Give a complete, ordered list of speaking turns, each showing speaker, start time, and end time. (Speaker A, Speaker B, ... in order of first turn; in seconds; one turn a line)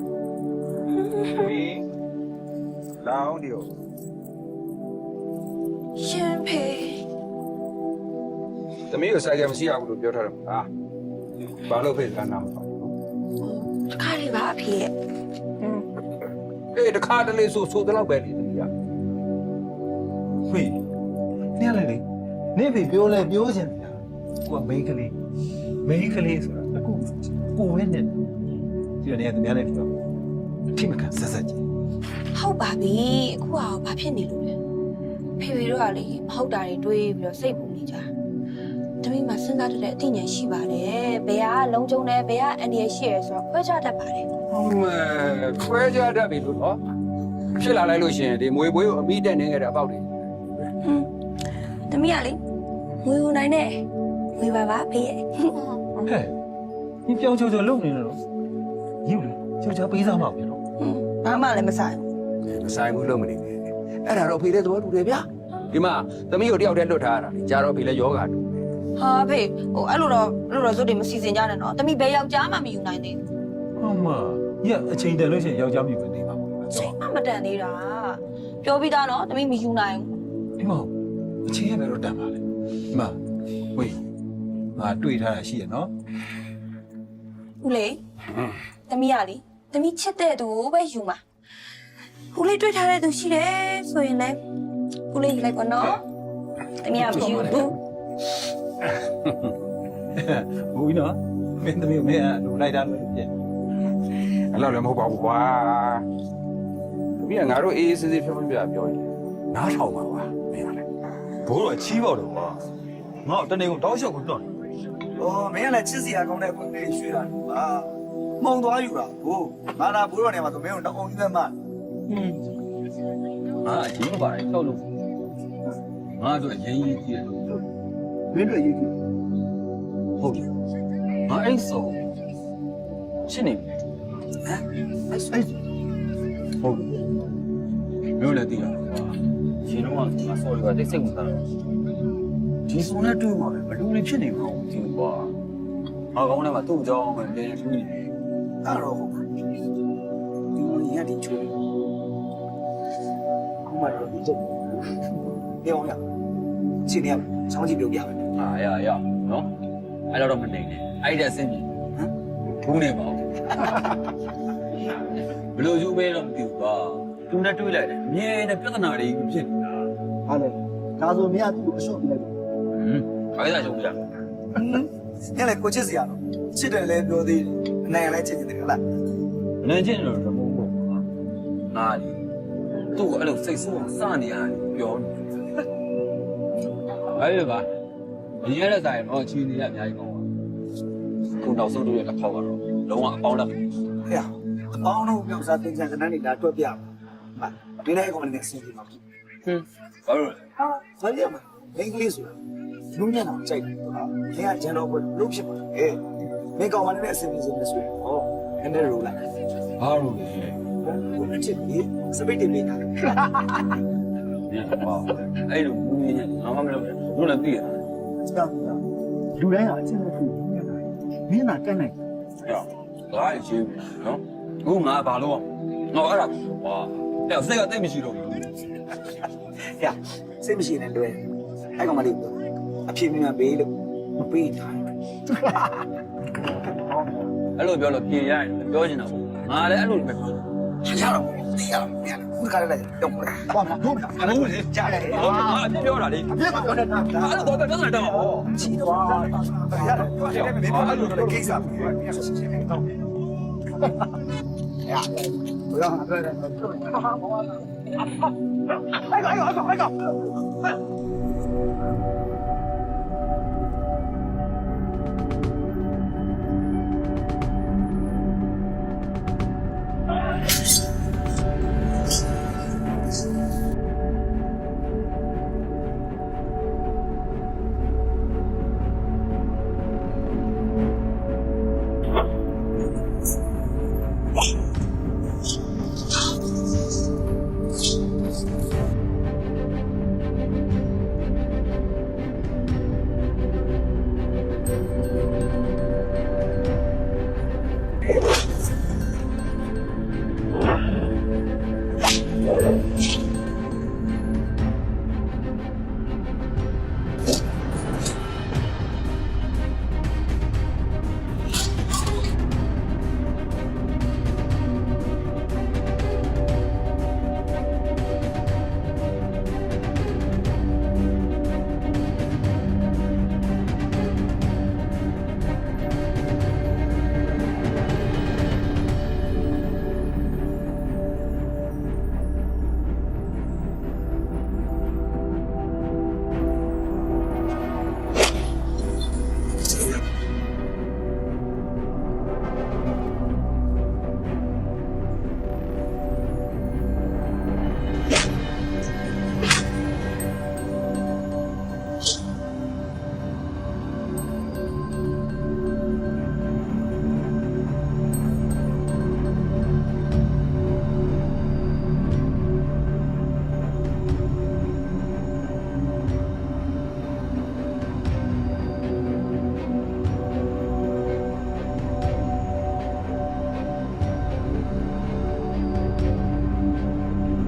Speaker A: 0.9-1.5
Speaker B: 1.4-1.9
Speaker B: 3.0-3.7
Speaker A: 6.0-7.0
Speaker B: 8.9-10.7
Speaker B: 11.6-12.9
Speaker A: 13.4-14.9
Speaker A: 15.6-15.8
Speaker B: 16.7-18.7
Speaker C: 20.5-20.8
Speaker C: 21.5-25.1
Speaker C: 25.8-28.2
Speaker C: 29.0-29.9
Speaker C: 30.7-31.6
Speaker A: 32.3-34.6
Speaker A: 35.4-38.1
Speaker A: 39.0-44.3
Speaker B: 44.5-46.8
Speaker B: 47.5-50.7
Speaker A: 50.8-51.1
Speaker A: 51.7-52.4
Speaker A: 53.0-55.8
Speaker C: 56.0-56.3
Speaker C: 57.0-58.2
Speaker C: 59.0-60.6
Speaker A: 60.8-62.0
Speaker B: 62.5-68.6
Speaker A: 68.9-73.2
Speaker C: 73.8-76.9
Speaker A: 76.7-80.1
Speaker C: 80.6-80.9
Speaker C: 81.4-83.2
Speaker C: 83.7-84.0
Speaker C: 84.7-85.9
Speaker A: 87.6-88.0
Speaker A: 88.9-91.2
Speaker A: 92.3-94.4
Speaker A: 95.1-96.1
Speaker A: 96.8-97.8
Speaker C: 96.9-97.7
Speaker C: 100.1-103.3
Speaker B: 104.4-106.1
Speaker B: 107.1-109.1
Speaker D: 109.5-112.6
Speaker D: 113.2-114.5
Speaker E: 115.2-121.5
Speaker A: 122.1-122.4
Speaker D: 123.6-124.9
Speaker D: 126.2-127.6
Speaker E: 128.3-128.9
Speaker D: 130.2-130.5
Speaker D: 131.3-132.0
Speaker D: 133.2-133.7
Speaker D: 134.4-135.6
Speaker D: 136.6-137.1
Speaker D: 138.2-141.4
Speaker D: 142.7-145.3
Speaker D: 146.1-148.1
Speaker E: 148.6-149.2
Speaker E: 150.5-151.6
Speaker E: 153.6-155.0
Speaker E: 155.6-156.0
Speaker E: 156.8-158.2
Speaker D: 158.3-159.5
Speaker D: 160.1-161.8
Speaker D: 162.4-163.9
Speaker D: 164.8-169.8
Speaker E: 170.2-172.3
Speaker D: 172.7-174.1
Speaker E: 174.5-178.8
Speaker D: 179.6-181.1
Speaker D: 181.7-182.2
Speaker D: 182.9-185.1
Speaker D: 187.0-187.7
Speaker D: 188.4-190.3
Speaker D: 191.4-193.6
Speaker E: 194.1-196.8
Speaker E: 197.3-199.0
Speaker D: 199.4-200.4
Speaker E: 200.6-202.4
Speaker E: 202.9-206.0
Speaker E: 206.6-209.2
Speaker D: 209.8-210.6
Speaker E: 210.8-213.7
Speaker D: 214.5-217.8
Speaker E: 218.2-218.8
Speaker E: 219.3-221.9
Speaker D: 222.4-228.5
Speaker E: 229.8-231.2
Speaker E: 231.8-235.7
Speaker D: 237.5-240.5
Speaker E: 240.8-245.7
Speaker D: 243.9-248.6
Speaker E: 246.3-252.9
Speaker D: 249.9-251.9
Speaker E: 254.8-257.3
Speaker E: 258.9-260.1